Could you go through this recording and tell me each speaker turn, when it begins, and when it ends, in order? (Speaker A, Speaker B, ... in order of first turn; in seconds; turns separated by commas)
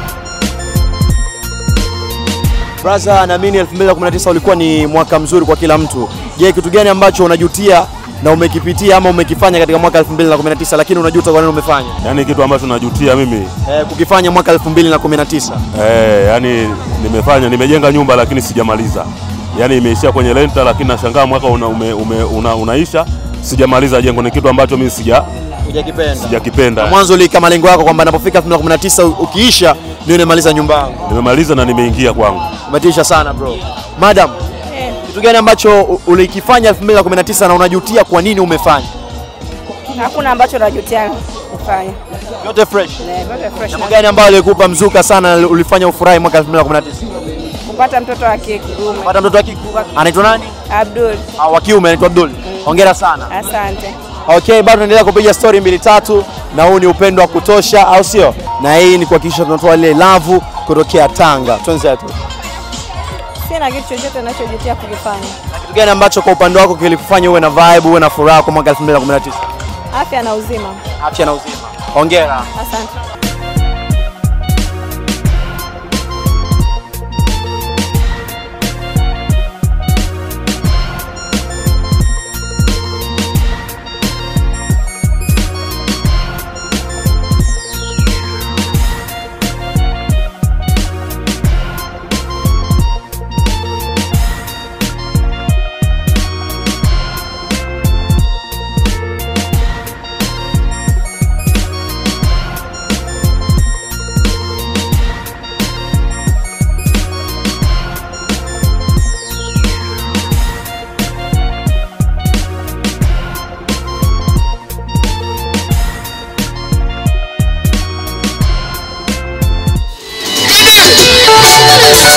Speaker A: 2.8-12.0, Speaker B: 12.0-13.5, Speaker A: 13.7-15.6, Speaker B: 15.7-25.3, Speaker A: 25.6-31.0, Speaker B: 26.2-27.0, Speaker B: 31.1-32.5, Speaker A: 32.7-34.4, Speaker C: 34.7-35.0, Speaker A: 35.1-38.9, Speaker C: 40.0-42.0, Speaker A: 42.4-43.1, Speaker C: 43.0-44.0, Speaker A: 43.7-47.2, Speaker C: 47.7-49.2, Speaker A: 49.0-50.6, Speaker C: 50.7-51.3, Speaker A: 51.4-53.3, Speaker C: 52.6-54.0, Speaker A: 54.3-62.1, Speaker C: 63.5-65.4, Speaker A: 65.5-69.4, Speaker C: 69.9-70.8, Speaker A: 71.0-72.5, Speaker C: 72.6-72.9